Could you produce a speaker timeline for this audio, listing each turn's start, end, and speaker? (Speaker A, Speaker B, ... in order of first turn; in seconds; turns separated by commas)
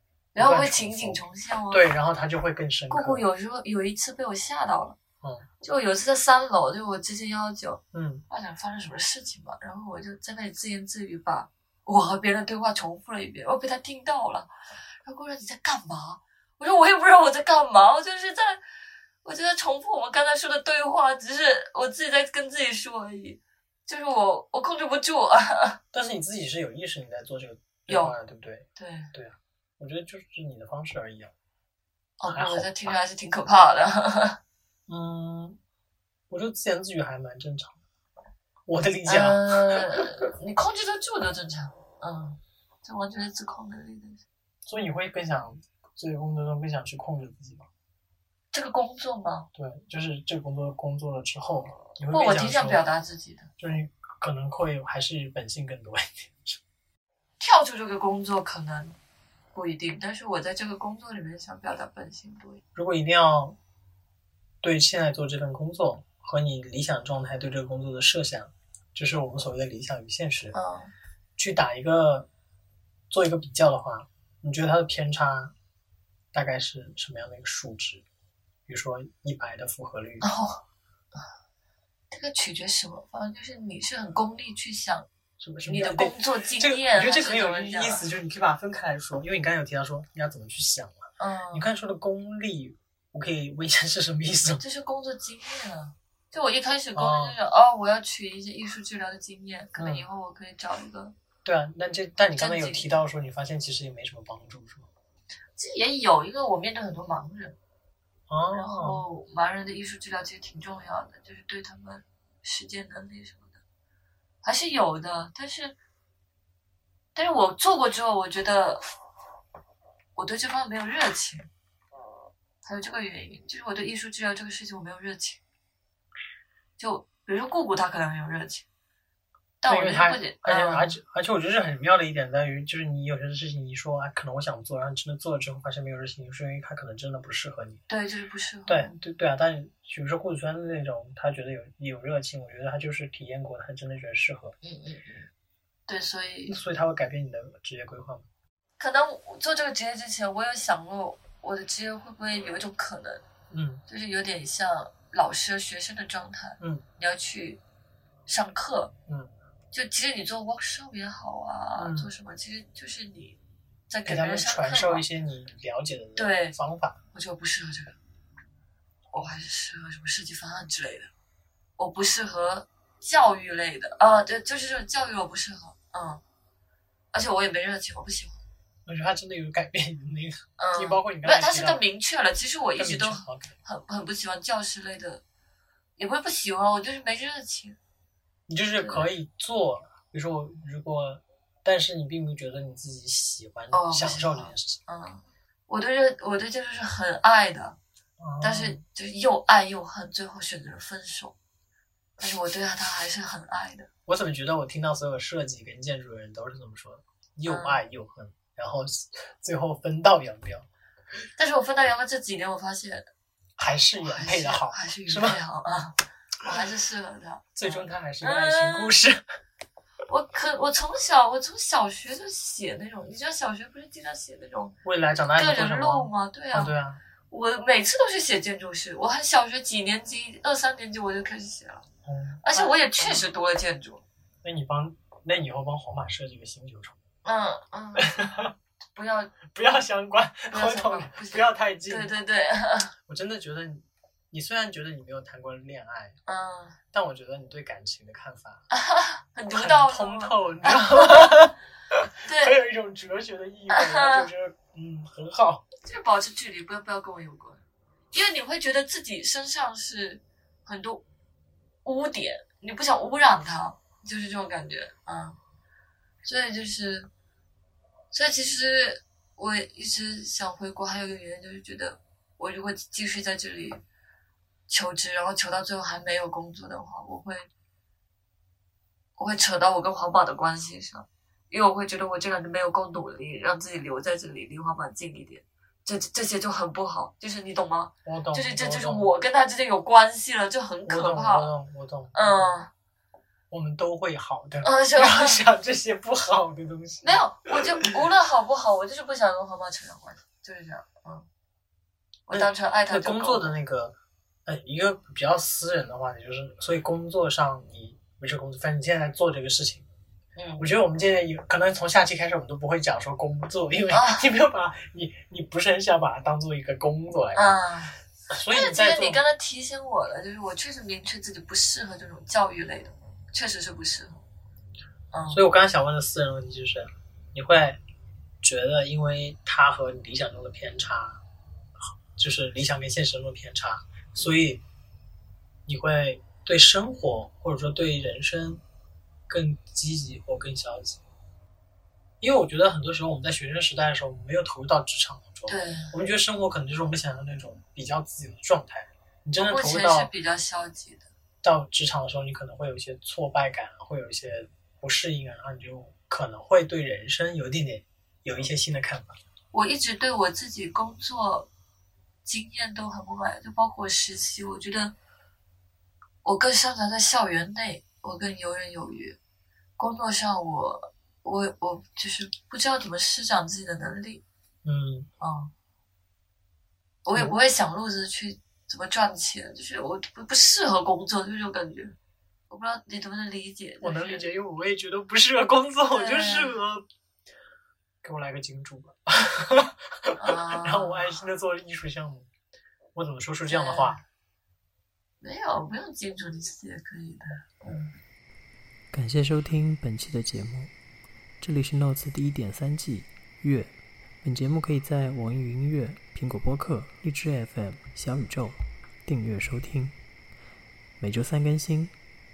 Speaker A: 0.3-1.9, Speaker B: 0.4-3.2, Speaker A: 2.9-5.0, Speaker A: 5.6-14.5, Speaker B: 7.9-8.2, Speaker A: 15.0-18.6, Speaker A: 19.2-25.8, Speaker B: 25.9-31.3, Speaker A: 27.9-28.2, Speaker A: 28.8-29.1, Speaker A: 32.2-34.4, Speaker B: 32.3-33.0, Speaker B: 34.9-35.6, Speaker B: 36.3-37.8, Speaker B: 38.7-40.0, Speaker A: 39.1-44.2, Speaker B: 44.7-47.7, Speaker A: 48.5-49.5, Speaker B: 49.5-52.8, Speaker A: 52.1-53.5, Speaker B: 53.6-56.6, Speaker A: 57.4-59.0, Speaker A: 59.5-62.6, Speaker B: 62.8-63.6, Speaker B: 64.6-70.5, Speaker A: 70.5-70.9, Speaker B: 71.4-72.3, Speaker B: 73.1-75.5, Speaker B: 76.3-78.0, Speaker B: 78.7-80.3, Speaker A: 80.2-80.6, Speaker A: 82.1-85.1, Speaker B: 85.4-94.6, Speaker A: 85.6-88.0, Speaker A: 91.2-91.7, Speaker A: 94.6-101.2, Speaker B: 97.0-97.4, Speaker B: 99.8-100.1, Speaker B: 101.5-104.9, Speaker A: 102.3-102.9, Speaker A: 105.6-107.6, Speaker B: 108.3-109.0, Speaker A: 108.5-113.6, Speaker A: 114.4-115.8, Speaker A: 117.2-118.8, Speaker A: 120.2-121.5, Speaker A: 122.6-125.4, Speaker A: 126.8-128.7, Speaker A: 129.6-131.0, Speaker B: 129.7-137.8, Speaker A: 137.9-138.9, Speaker B: 138.7-144.6, Speaker A: 144.6-145.3, Speaker A: 145.9-146.6, Speaker B: 146.5-148.3, Speaker A: 148.8-153.2, Speaker B: 153.5-153.8, Speaker A: 153.9-157.6, Speaker A: 158.3-158.9, Speaker A: 159.7-165.1, Speaker B: 161.8-162.1, Speaker B: 164.1-167.0, Speaker A: 166.2-166.6, Speaker A: 167.1-168.0, Speaker A: 169.1-171.1, Speaker A: 171.8-176.2, Speaker A: 177.1-178.4, Speaker B: 178.9-181.8, Speaker A: 180.6-185.2, Speaker B: 182.8-183.6, Speaker A: 186.0-187.8, Speaker B: 188.5-194.8, Speaker A: 188.8-189.1, Speaker A: 193.7-197.8, Speaker B: 198.2-198.8, Speaker A: 198.4-201.4, Speaker A: 202.2-203.9, Speaker B: 204.1-210.7, Speaker A: 207.5-207.8, Speaker A: 211.4-213.1, Speaker B: 213.6-215.4, Speaker A: 214.0-219.0, Speaker B: 217.6-219.2, Speaker A: 220.1-224.8, Speaker B: 224.8-227.0, Speaker A: 225.4-226.7, Speaker A: 227.3-231.8, Speaker B: 232.1-233.3, Speaker A: 232.4-234.0, Speaker B: 234.4-237.0, Speaker A: 237.2-238.2, Speaker B: 238.2-238.5, Speaker A: 238.9-239.4, Speaker B: 239.5-242.1, Speaker A: 240.5-242.9, Speaker B: 243.1-246.2, Speaker A: 246.3-246.8, Speaker B: 246.9-248.7, Speaker A: 248.7-251.3, Speaker B: 249.5-251.6, Speaker A: 252.2-252.6, Speaker B: 252.3-255.7, Speaker A: 253.7-254.3, Speaker A: 255.8-261.0, Speaker A: 261.8-265.4, Speaker A: 266.2-267.1, Speaker A: 268.1-273.8, Speaker A: 274.7-277.5, Speaker A: 279.2-291.5, Speaker B: 288.1-289.1, Speaker B: 290.9-292.5, Speaker A: 292.1-292.7, Speaker B: 293.5-297.9, Speaker A: 294.6-295.4, Speaker A: 297.0-301.3, Speaker A: 302.3-303.6, Speaker B: 302.3-309.9, Speaker A: 310.4-310.7, Speaker B: 310.6-317.6, Speaker A: 313.9-314.3, Speaker A: 317.4-318.0, Speaker B: 318.3-319.2, Speaker A: 318.5-324.2, Speaker A: 325.1-325.4, Speaker B: 325.3-327.8, Speaker B: 328.4-331.2, Speaker B: 331.8-334.6, Speaker B: 335.7-338.6, Speaker B: 339.3-341.0, Speaker B: 342.2-350.1, Speaker A: 345.5-345.9, Speaker A: 349.4-351.1, Speaker B: 351.4-359.2, Speaker A: 359.5-361.5, Speaker A: 362.2-364.9, Speaker A: 366.2-369.2, Speaker A: 369.8-374.2, Speaker B: 374.6-375.1, Speaker A: 375.2-375.5, Speaker A: 377.0-381.9, Speaker A: 382.5-384.3, Speaker B: 383.8-386.9, Speaker A: 385.9-386.6, Speaker B: 388.0-392.3, Speaker A: 390.2-391.2, Speaker B: 392.9-394.0, Speaker A: 393.5-394.0, Speaker A: 395.2-397.9, Speaker C: 398.9-400.7, Speaker C: 401.4-410.0, Speaker C: 411.0-411.9